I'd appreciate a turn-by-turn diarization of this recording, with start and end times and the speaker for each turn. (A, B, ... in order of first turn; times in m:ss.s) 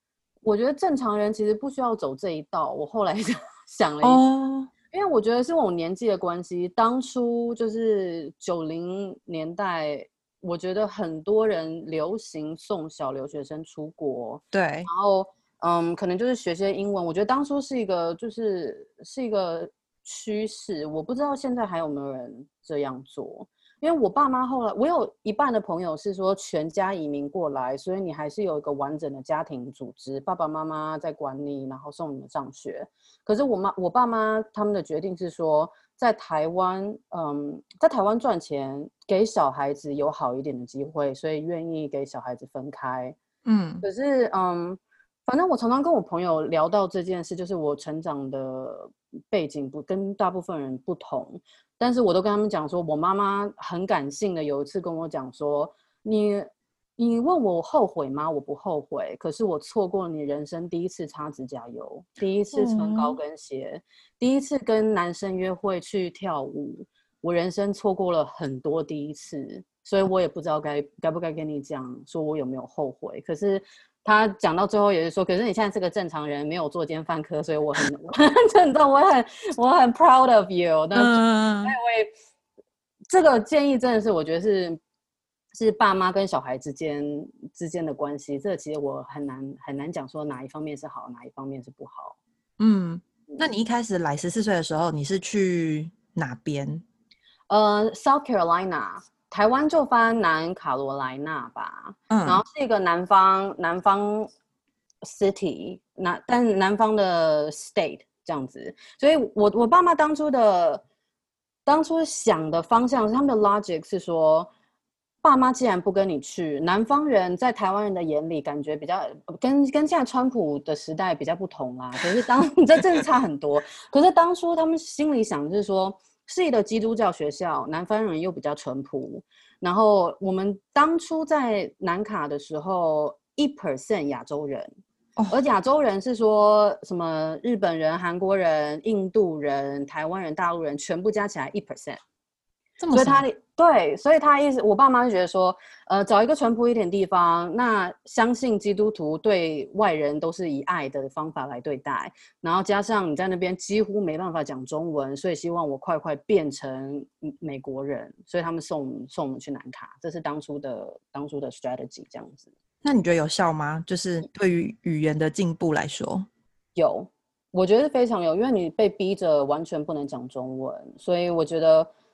0:00.4-0:04.2 A
0:04.0-0:04.7 B
0:04.9-0:43.2 A
0:14.5-0:14.9 B
0:43.4-0:43.8 B
0:43.8-1:22.1 A
1:02.5-1:03.2 B
1:21.0-1:21.7 B
1:23.1-1:24.8 A
1:25.5-1:32.2 A
1:32.6-1:36.8 B
1:37.5-1:44.3 A
1:42.1-1:42.4 B
1:45.0-1:50.8 A
1:51.7-1:54.5 A
1:55.2-2:14.7 A
2:15.3-2:22.0 A
2:22.8-2:23.2 B
2:22.9-2:42.5 A
2:42.8-2:46.3 B
2:46.8-2:51.9 A